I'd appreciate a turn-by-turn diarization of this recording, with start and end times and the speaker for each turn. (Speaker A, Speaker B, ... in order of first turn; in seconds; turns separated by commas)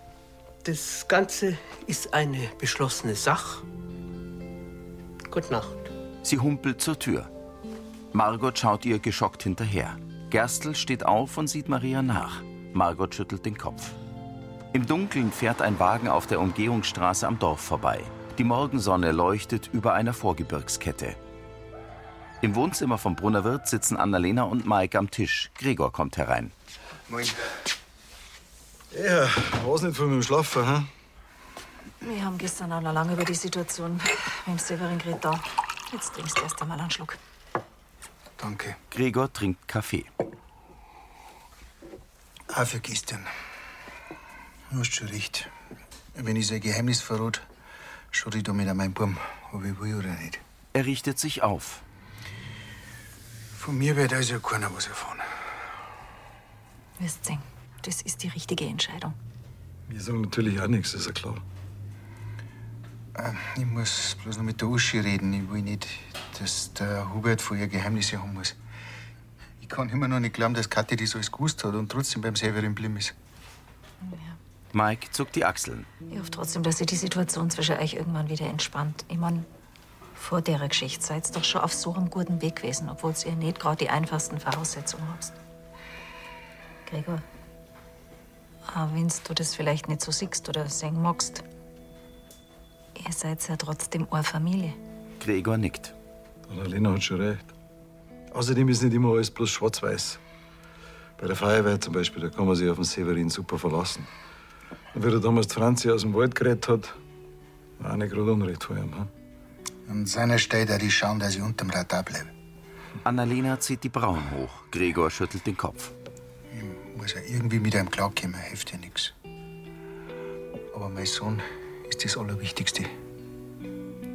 Speaker A: 0.6-3.6, Speaker A: 5.3-5.9, Speaker B: 6.2-7.3, Speaker B: 8.1-13.9, Speaker B: 14.7-21.2, Speaker B: 22.4-26.5, Speaker C: 27.1-27.4, Speaker D: 28.9-30.9, Speaker E: 32.0-37.2, Speaker C: 38.4-38.8, Speaker B: 38.9-40.1, Speaker C: 42.5-43.3, Speaker C: 44.7-45.5, Speaker C: 46.1-47.4, Speaker C: 48.1-50.4, Speaker B: 50.7-51.8, Speaker C: 53.5-55.3, Speaker E: 57.0-59.1, Speaker D: 59.9-61.4, Speaker C: 63.1-68.6, Speaker C: 69.6-73.1, Speaker E: 74.0-74.4, Speaker B: 74.7-75.9, Speaker E: 76.1-79.5, Speaker E: 80.2-85.3, Speaker E: 86.8-87.2, Speaker E: 88.7-91.4, Speaker E: 93.0-94.8, Speaker B: 95.2-95.9, Speaker D: 96.5-97.5, Speaker D: 98.3-100.2, Speaker D: 101.2-104.1, Speaker D: 104.9-106.9, Speaker D: 107.8-109.1, Speaker C: 109.9-112.3, Speaker B: 113.0-115.9, Speaker C: 116.5-119.1, Speaker C: 120.7-122.9